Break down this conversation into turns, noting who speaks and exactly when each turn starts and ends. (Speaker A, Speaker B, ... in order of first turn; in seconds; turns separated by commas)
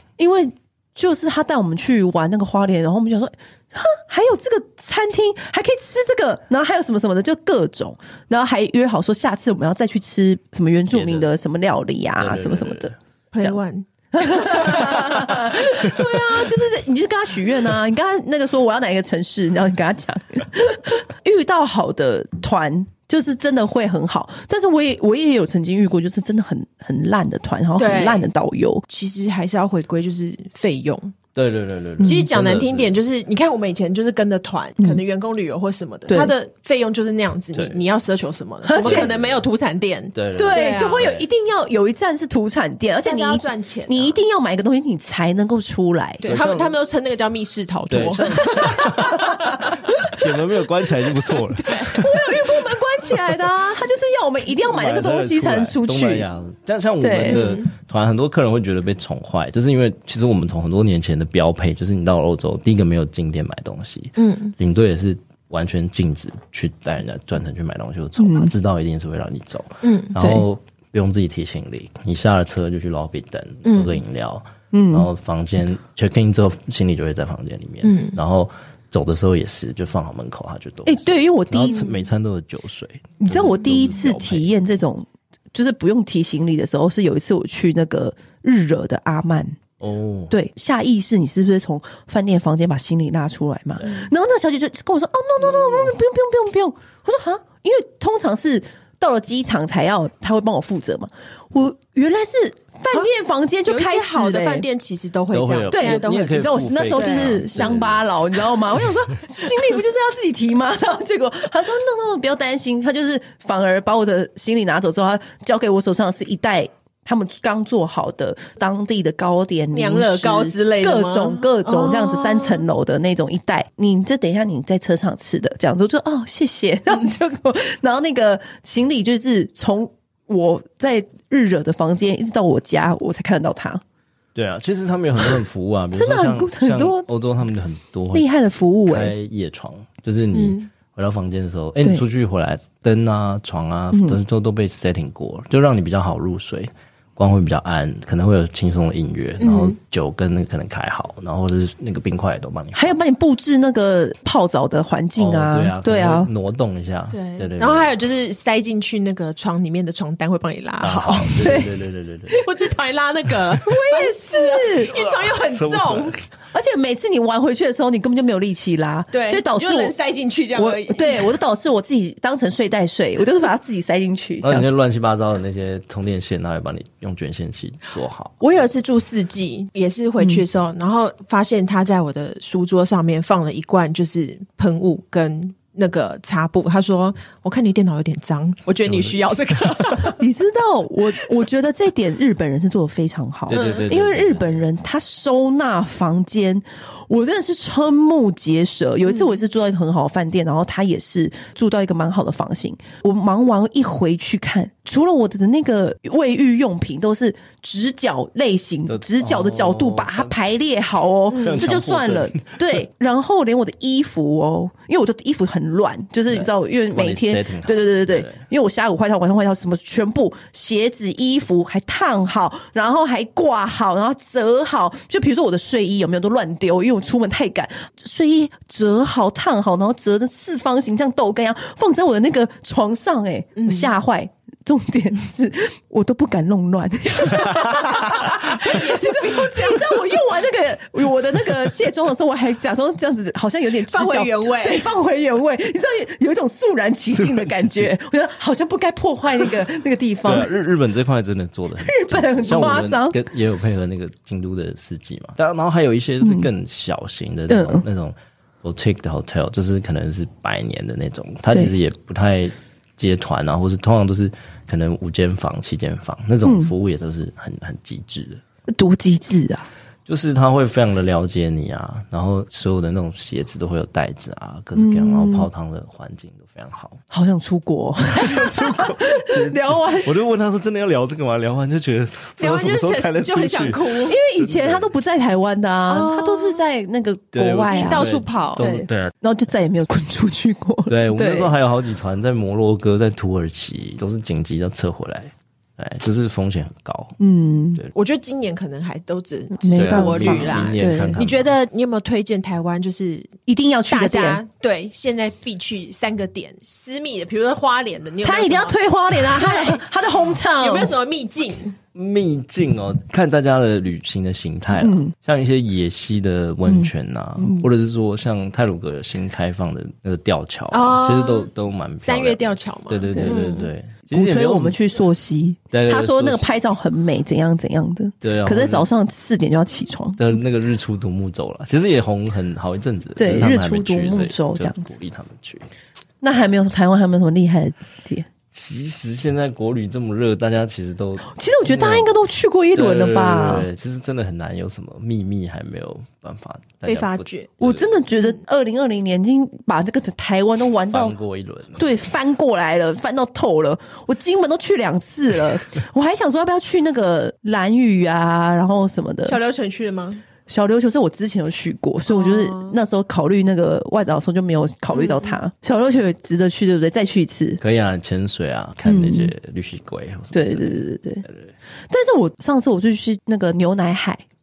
Speaker A: 0.2-13.6, Speaker B: 10.9-11.3, Speaker B: 12.2-12.9, Speaker C: 13.3-15.0, Speaker A: 14.1-28.8, Speaker B: 14.9-15.3, Speaker C: 27.8-28.3, Speaker C: 28.9-31.1, Speaker B: 31.3-33.0, Speaker A: 32.0-32.3, Speaker C: 32.0-41.1, Speaker A: 36.1-36.3, Speaker B: 37.5-37.8, Speaker A: 38.7-39.1, Speaker B: 38.7-39.4, Speaker B: 40.1-41.2, Speaker A: 40.4-46.2, Speaker C: 43.0-44.2, Speaker C: 46.2-49.8, Speaker B: 46.2-46.8, Speaker B: 47.9-52.5, Speaker A: 48.8-49.1, Speaker A: 49.7-50.1, Speaker C: 51.6-52.0, Speaker A: 51.8-56.2, Speaker B: 54.6-84.5, Speaker A: 57.0-57.4, Speaker C: 57.2-57.7, Speaker C: 64.2-64.5, Speaker A: 68.2-68.5, Speaker C: 69.8-70.2, Speaker A: 70.2-70.4, Speaker C: 73.6-74.0, Speaker A: 74.7-75.1, Speaker C: 77.8-78.2, Speaker A: 80.8-81.8, Speaker A: 83.2-89.6, Speaker B: 89.8-90.3, Speaker A: 90.3-104.6, Speaker B: 93.8-94.1, Speaker B: 95.4-95.9, Speaker C: 103.7-107.4, Speaker B: 105.3-108.1, Speaker A: 105.7-133.8, Speaker C: 119.7-122.6, Speaker B: 134.3-138.3, Speaker A: 135.9-137.1, Speaker A: 138.1-139.1, Speaker B: 138.8-153.0, Speaker C: 140.3-140.7, Speaker A: 143.9-144.2, Speaker C: 149.4-149.8, Speaker A: 152.7-156.3, Speaker B: 155.2-157.9, Speaker C: 157.1-161.6, Speaker B: 160.8-162.4, Speaker A: 161.4-161.7, Speaker C: 162.3-166.1, Speaker A: 163.6-164.9, Speaker B: 164.8-166.2, Speaker A: 166.5-169.9, Speaker C: 169.1-171.3, Speaker A: 170.6-174.7, Speaker B: 174.4-178.5, Speaker C: 178.4-190.2, Speaker B: 188.8-189.2, Speaker B: 189.8-190.1, Speaker A: 190.2-250.5, Speaker B: 193.5-194.7, Speaker C: 193.5-193.9, Speaker B: 208.9-210.3, Speaker C: 211.3-211.7, Speaker B: 211.3-212.8, Speaker B: 216.3-218.4, Speaker C: 233.6-233.9, Speaker C: 237.9-240.0, Speaker C: 243.9-244.9, Speaker B: 247.1-247.9, Speaker B: 250.2-268.4, Speaker A: 251.8-253.2, Speaker A: 256.2-256.5, Speaker A: 257.5-257.8, Speaker A: 266.4-266.7, Speaker A: 268.7-269.7, Speaker B: 270.1-277.0, Speaker A: 274.7-275.5, Speaker A: 277.1-280.1, Speaker B: 278.1-284.9, Speaker C: 282.4-284.2, Speaker A: 284.1-291.5, Speaker C: 285.9-286.6, Speaker B: 287.3-289.1, Speaker C: 287.7-288.7, Speaker B: 290.9-297.2, Speaker A: 297.2-297.8, Speaker C: 297.9-303.3, Speaker A: 299.6-301.2, Speaker B: 299.7-301.5, Speaker A: 303.5-304.4, Speaker C: 303.9-309.8, Speaker A: 308.2-310.9, Speaker C: 310.6-311.8, Speaker B: 311.9-324.8, Speaker A: 314.8-315.1, Speaker A: 316.6-317.7, Speaker C: 320.7-323.7, Speaker A: 323.1-330.2, Speaker B: 325.7-326.5, Speaker B: 328.2-328.9, Speaker B: 330.2-335.7, Speaker A: 333.2-334.9, Speaker A: 336.2-338.3, Speaker B: 338.5-342.1, Speaker A: 341.3-343.7, Speaker B: 342.7-348.0, Speaker C: 346.9-347.6, Speaker A: 347.6-351.1, Speaker B: 350.9-351.9, Speaker A: 351.8-359.4, Speaker C: 359.2-360.2, Speaker A: 360.5-367.6, Speaker C: 362.1-362.8, Speaker C: 364.9-365.4, Speaker B: 367.6-371.5, Speaker A: 368.8-369.3, Speaker A: 370.3-371.2, Speaker A: 371.9-374.2